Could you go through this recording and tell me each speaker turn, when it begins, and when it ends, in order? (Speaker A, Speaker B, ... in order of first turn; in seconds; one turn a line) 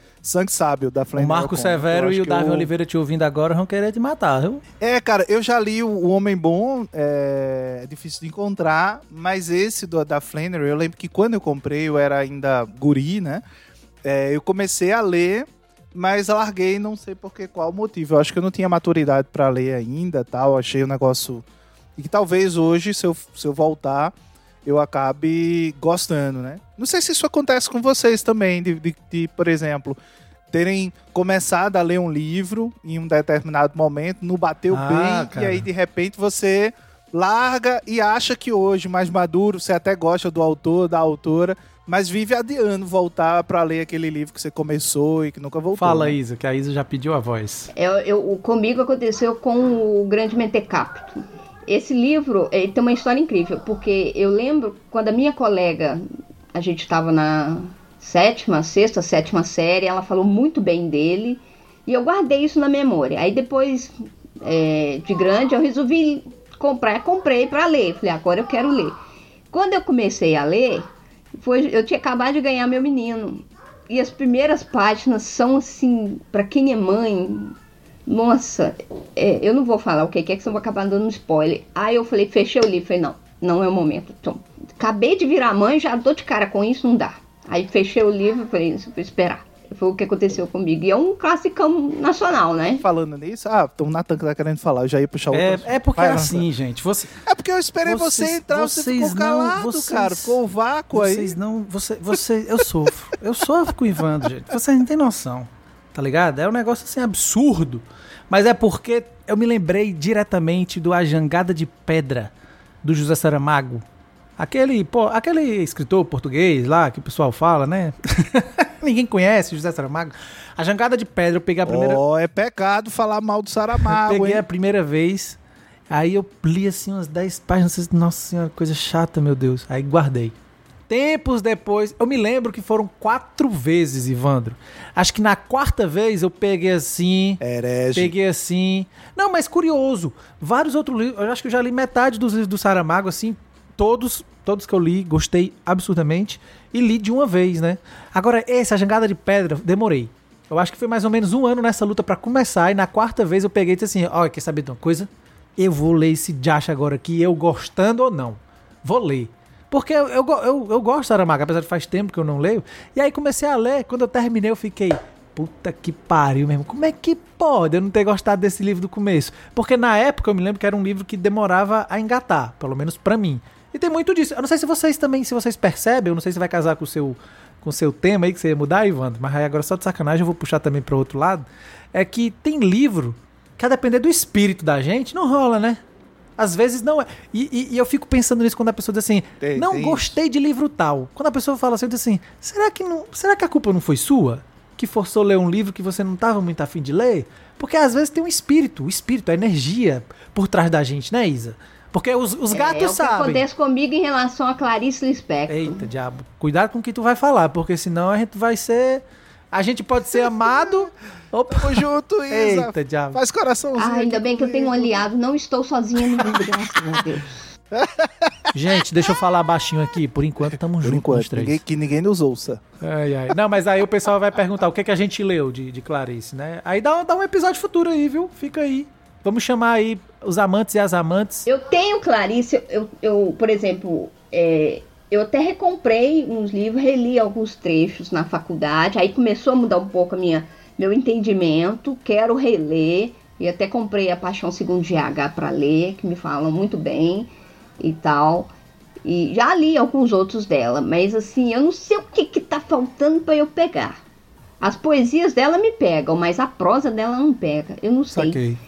Speaker A: 0.2-2.7
Speaker B: 1.1-4.6
Speaker A: 4.8-13.4
Speaker A: 14.0-21.4
Speaker A: 21.9-30.0
Speaker A: 30.5-46.1
Speaker B: 34.7-35.7
Speaker B: 45.8-47.7
Speaker C: 47.7-69.0
Speaker C: 69.5-77.6
Speaker C: 78.1-92.8
Speaker A: 92.8-96.5
Speaker B: 95.3-97.1
Speaker A: 97.2-101.3
Speaker B: 97.8-100.4
Speaker B: 100.9-112.3
Speaker B: 112.8-113.8
Speaker B: 114.4-122.0
Speaker A: 121.6-124.4
Speaker B: 123.8-125.4
Speaker B: 125.9-130.3
Speaker B: 130.9-137.4
Speaker A: 137.4-138.1
Speaker B: 137.9-185.8
Speaker B: 186.4-203.4
Speaker A: 189.4-190.2
Speaker C: 202.5-205.9
Speaker B: 205.5-213.2
Speaker A: 210.2-210.9
Speaker A: 211.5-215.1
Speaker C: 213.8-217.4
Speaker A: 217.7-218.6
Speaker B: 218.5-221.6
Speaker A: 220.8-222.6
Speaker B: 222.8-231.4
Speaker C: 231.4-248.5
Speaker C: 249.0-254.0
Speaker C: 254.6-258.4
Speaker B: 258.1-258.6